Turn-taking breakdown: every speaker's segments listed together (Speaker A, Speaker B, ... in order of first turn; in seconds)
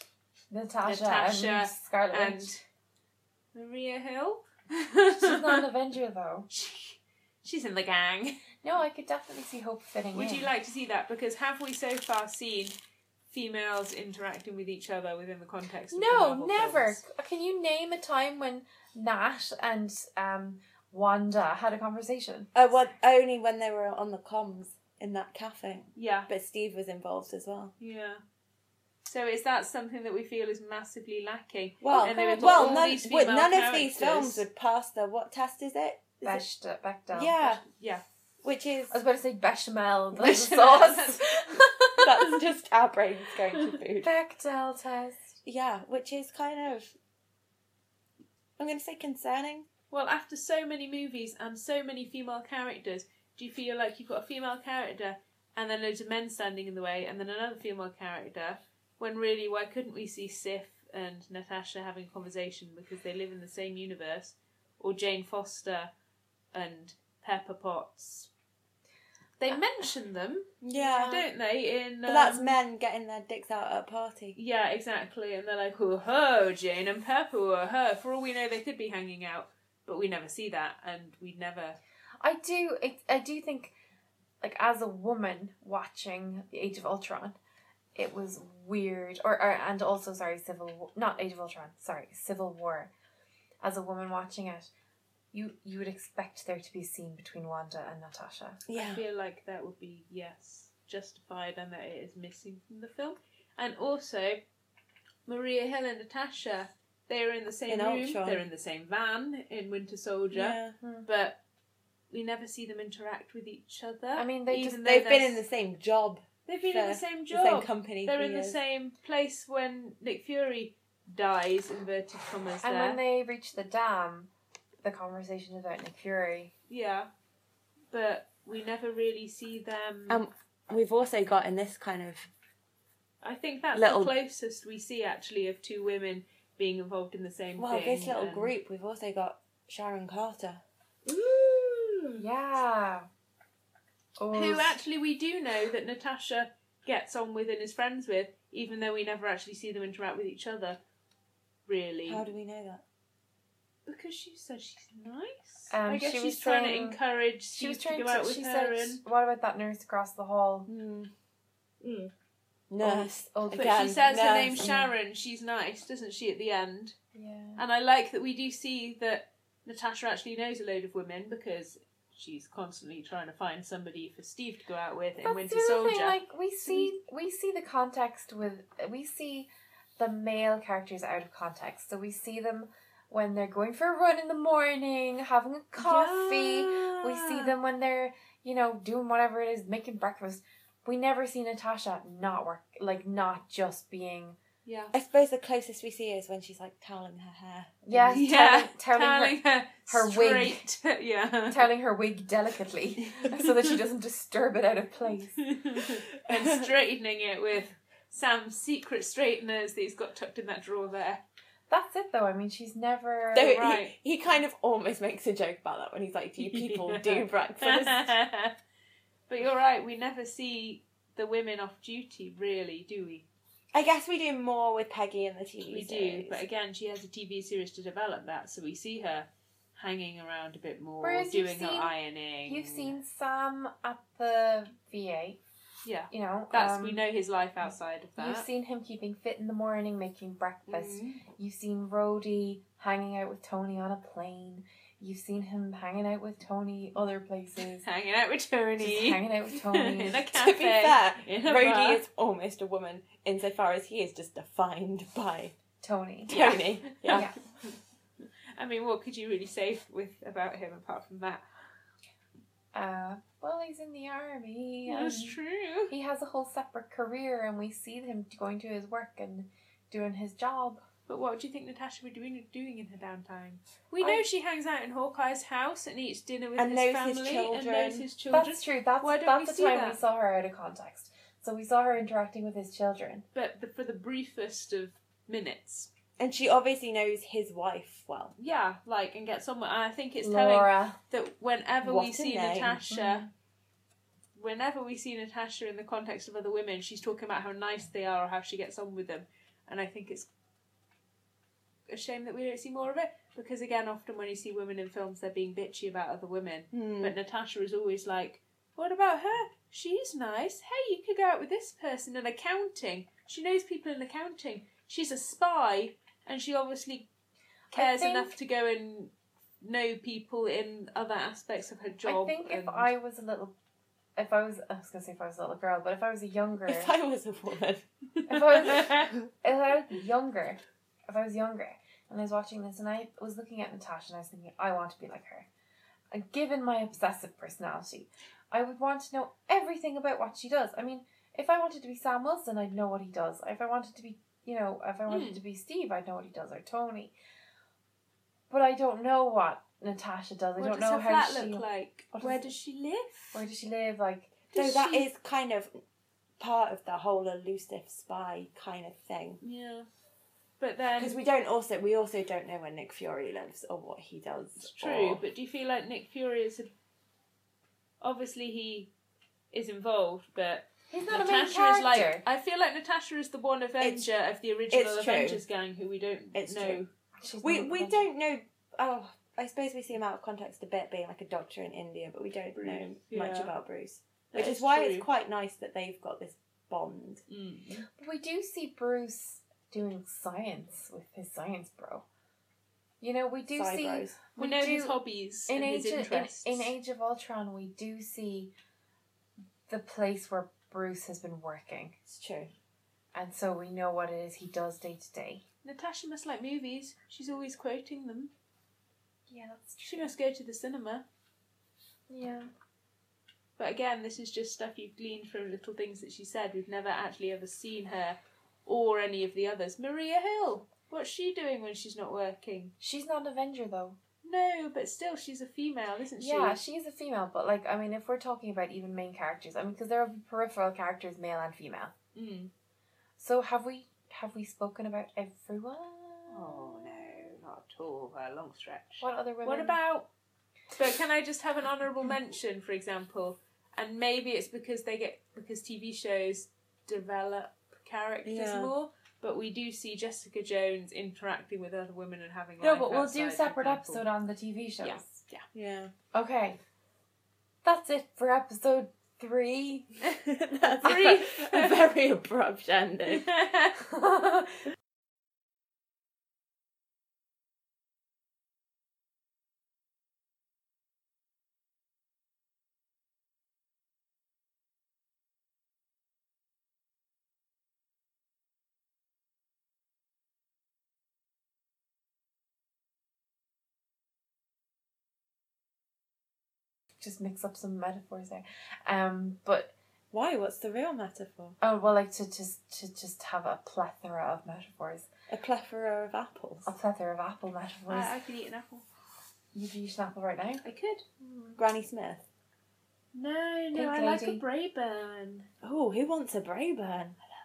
Speaker A: 0.5-2.5, 5.1-6.5, 8.6-10.5, 15.9-22.5, 32.0-32.8, 36.2-37.4, 38.9-42.2, 44.0-45.4, 70.8-71.2, 82.2-83.7, 84.4-87.4, 88.0-92.9, 93.6-94.7, 95.3-98.6, 110.8-111.1, 114.1-114.8, 122.6-124.3, 124.8-126.5, 142.2-143.1, 144.2-144.8, 155.7-157.0, 157.5-160.7, 162.8-164.0, 164.5-164.9, 167.1-167.6, 175.2-179.5, 180.0-194.4, 197.8-200.6, 201.5-205.4, 211.7-213.6, 231.0-231.9, 232.4-235.4, 236.1-237.0, 238.2-247.8, 248.8-250.3, 255.8-257.4, 262.7-265.4, 265.9-270.8, 278.3-283.2, 290.2-291.0, 292.9-293.3, 317.7-318.3, 322.0-323.5, 324.2-326.9, 328.3-335.5, 336.1-347.1, 348.5-352.5, 353.3-354.4, 370.9-372.2, 377.2-378.1, 388.0-392.0, 393.0-394.9, 395.5-398.5, 399.7-401.9, 403.1-405.4, 409.3-410.1, 412.1-412.5, 422.8-424.0, 426.2-431.9, 433.2-437.1, 439.0-439.8, 452.6-455.2, 456.1-456.6, 457.6-460.1, 460.6-460.9, 463.8-464.6, 487.0-489.7, 491.6-495.1, 496.6-498.1, 499.5-500.6, 501.2-501.6, 503.7-504.4
Speaker B: 0.8-2.6, 3.5-5.6, 6.5-8.5, 10.1-12.8, 13.3-17.0, 25.9-26.3, 27.8-28.2, 29.1-34.4, 37.4-38.0, 40.2-41.5, 49.9-65.9, 66.5-68.3, 69.4-70.5, 71.0-72.5, 74.3-81.8, 98.7-104.4, 105.2-111.4, 112.1-115.4, 116.5-123.0, 126.7-127.1, 127.9-130.2, 133.2-138.5, 144.3-150.8, 151.7-152.2, 153.8-159.0, 163.5-167.0, 167.6-176.9, 194.6-194.9, 198.1-201.7, 205.4-211.2, 213.5-213.9, 216.4-218.5, 219.3-223.3, 225.7-232.9, 235.8-238.5, 240.7-241.2, 247.8-252.0, 256.3-257.3, 258.6-261.4, 264.9-265.9, 271.1-280.0, 283.3-285.9, 288.4-293.3, 294.3-300.3, 301.9-317.1, 317.7-322.9, 328.6-329.1, 345.1-345.4, 350.6-353.4, 354.5-355.1, 359.4-359.9, 360.6-361.1, 364.6-366.7, 368.0-368.9, 369.5-376.9, 382.5-383.5, 384.3-385.1, 387.3-387.9, 394.3-396.7, 405.6-408.3, 409.8-411.1, 413.6-422.7, 424.2-426.6, 432.1-432.5, 436.3-440.1, 440.7-454.1, 454.8-455.4, 460.1-461.9, 463.1-463.8, 497.9-498.9, 500.6-501.0, 503.1-505.5
Speaker C: 22.5-27.7, 31.8-36.4, 37.1-37.6, 38.4-39.0, 42.0-44.1, 45.4-47.0, 48.6-49.7, 70.6-71.2, 72.0-74.3, 98.7-99.0, 107.7-108.4, 110.3-110.8, 114.6-118.6, 130.1-132.3, 133.7-134.1, 137.6-142.2, 152.1-152.8, 160.7-161.1, 161.8-162.1, 162.7-164.9, 185.8-187.5, 194.9-198.2, 206.2-206.7, 213.3-218.1, 223.7-226.4, 250.3-255.5, 256.3-257.3, 276.6-278.1, 286.2-288.3, 291.8-292.8, 306.7-307.1, 326.7-327.9, 328.6-329.1, 354.5-355.8, 356.4-359.4, 361.0-365.2, 373.8-374.1, 374.7-375.4, 376.3-376.8, 377.4-387.2, 393.6-394.2, 402.1-402.5, 448.2-448.7, 455.5-455.9, 460.4-463.3, 490.1-491.6, 495.3-496.7, 501.6-502.2, 505.6-507.2